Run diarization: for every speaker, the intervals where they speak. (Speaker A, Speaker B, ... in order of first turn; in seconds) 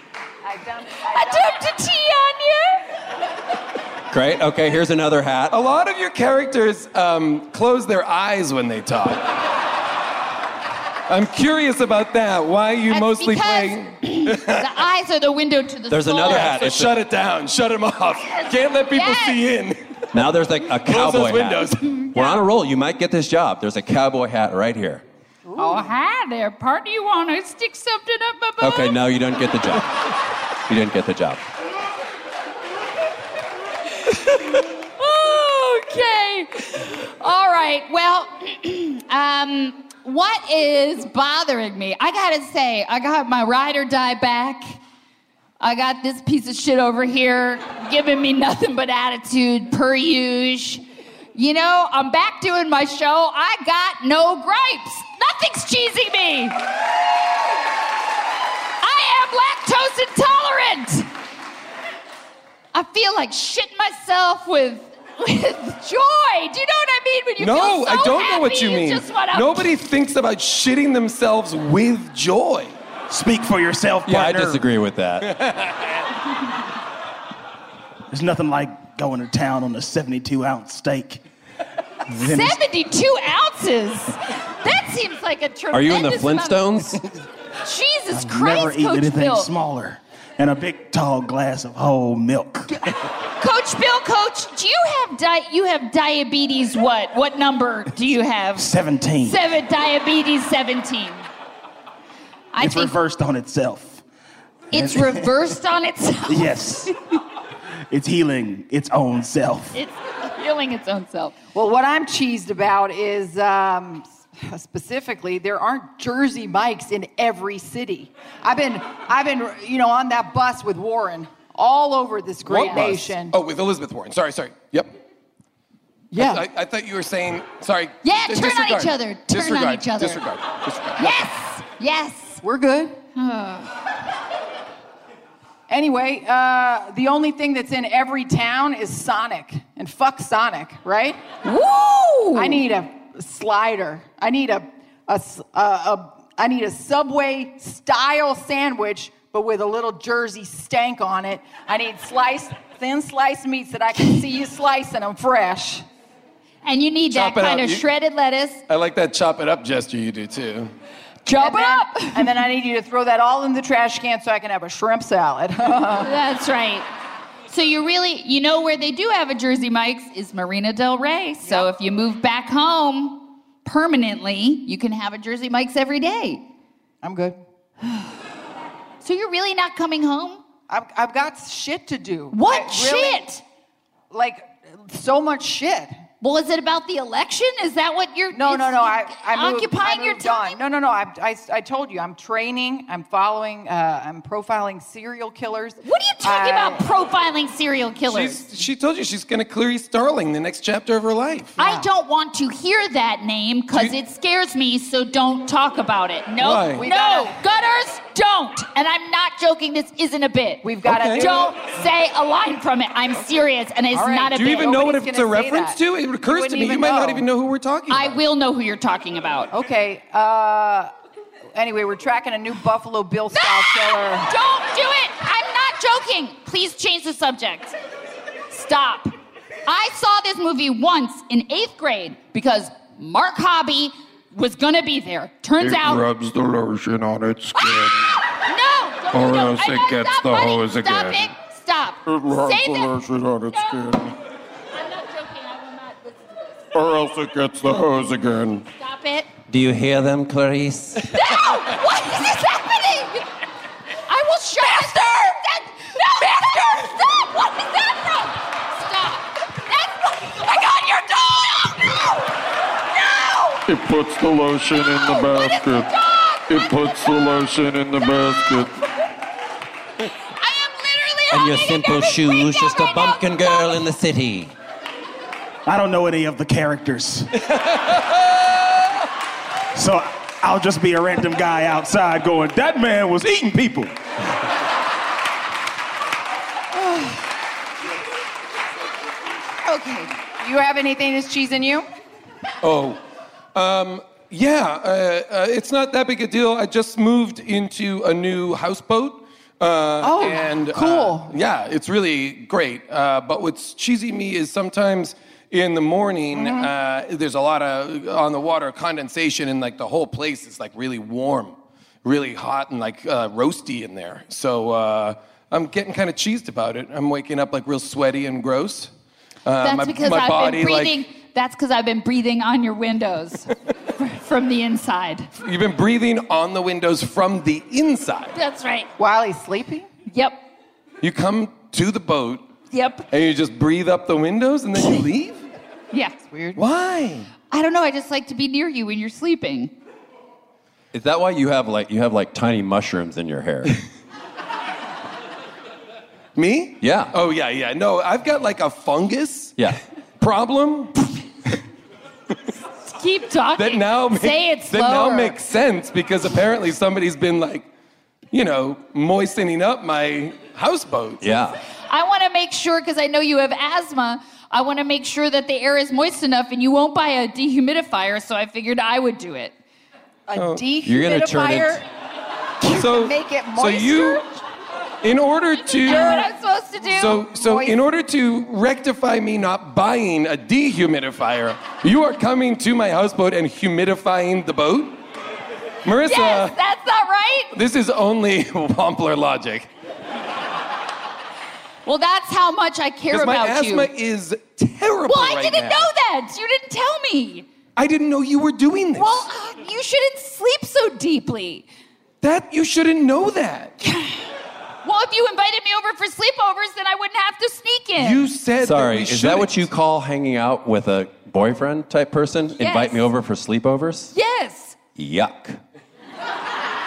Speaker A: 0.4-1.6, 25.5-25.9, 111.5-123.4, 126.1-126.5, 132.4-133.0, 135.7-141.2, 142.3-155.8, 161.4-166.2, 171.4-171.7, 177.0-177.4, 180.7-183.3, 184.1-185.9, 188.3-196.8, 201.6-201.9, 206.8-207.4, 210.6-211.6, 213.9-217.2, 219.5-220.9, 221.6-224.3, 290.4-291.9, 300.0-301.3, 306.3-306.7, 329.0-329.9, 336.2-336.6, 370.3-371.8, 372.6-374.2, 375.9-376.3, 377.2-377.8
Speaker B: 1.1-2.8, 12.9-16.6, 18.3-19.4, 22.1-22.4, 25.6-29.0, 35.0-44.8, 45.6-50.8, 51.4-56.6, 58.8-61.1, 62.7-69.7, 82.2-86.9, 87.6-89.5, 92.9-101.3, 102.5-103.0, 104.7-106.9, 109.7-111.4, 128.0-130.2, 131.0-132.4, 133.2-133.7, 141.4-142.6, 156.7-158.6, 161.3-162.3, 166.0-166.9, 167.5-176.4, 179.0-180.4, 182.3-183.4, 186.2-190.6, 195.8-198.4, 201.6-214.7, 217.9-219.5, 223.3-227.8, 228.5-229.1, 229.7-236.0, 237.6-244.0, 244.7-246.8, 248.8-249.3, 251.1-253.3, 254.1-262.3, 262.9-263.6, 264.7-267.2, 268.1-268.7, 270.4-273.9, 289.6-290.1, 319.6-325.3, 328.4-328.9, 330.1-330.4, 332.7-333.1, 335.9-336.2, 337.5-339.7, 352.9-355.4, 361.9-369.5, 375.8-377.2, 386.1-387.6, 391.9-393.9, 395.1-397.5, 399.0-401.7, 403.8-404.2, 404.8-408.3, 412.6-413.1, 414.1-414.8
Speaker C: 4.1-5.6, 15.9-17.0, 20.1-25.0, 28.6-30.0, 30.7-31.4, 74.1-75.4, 85.7-87.1, 249.5-251.1, 271.3-274.5, 340.9-343.8, 346.8-347.1, 361.2-361.6, 370.8-371.8, 408.6-414.1, 415.0-415.6
Speaker D: 5.5-9.2, 11.1-14.7, 16.3-20.1, 20.8-22.1, 67.4-72.7, 75.2-76.0, 122.5-124.9, 126.1-131.2, 157.1-157.8, 158.7-160.7, 198.1-201.6, 206.4-206.9, 210.8-211.3, 214.3-218.2, 277.5-278.2, 292.6-293.0, 293.6-318.9, 319.4-321.0, 325.4-328.4, 331.0-332.5, 333.1-335.4, 336.6-337.3, 346.4-349.6, 350.2-351.1, 353.6-357.7, 358.3-361.3, 370.4-370.6, 372.6-374.2, 375.0-376.3, 376.8-385.0, 385.9-386.6, 387.5-389.7, 393.1-395.9, 397.8-399.2, 402.2-403.8, 408.0-409.6
Speaker E: 73.1-74.6, 78.1-81.2, 82.1-82.6, 88.1-92.8, 98.6-99.4, 102.6-104.0, 104.7-105.4, 106.3-106.9, 107.9-109.8, 275.7-277.3, 279.8-283.9
Speaker F: 235.6-238.2, 239.1-241.3, 242.1-244.1, 246.7-248.7, 263.7-265.9, 266.5-268.7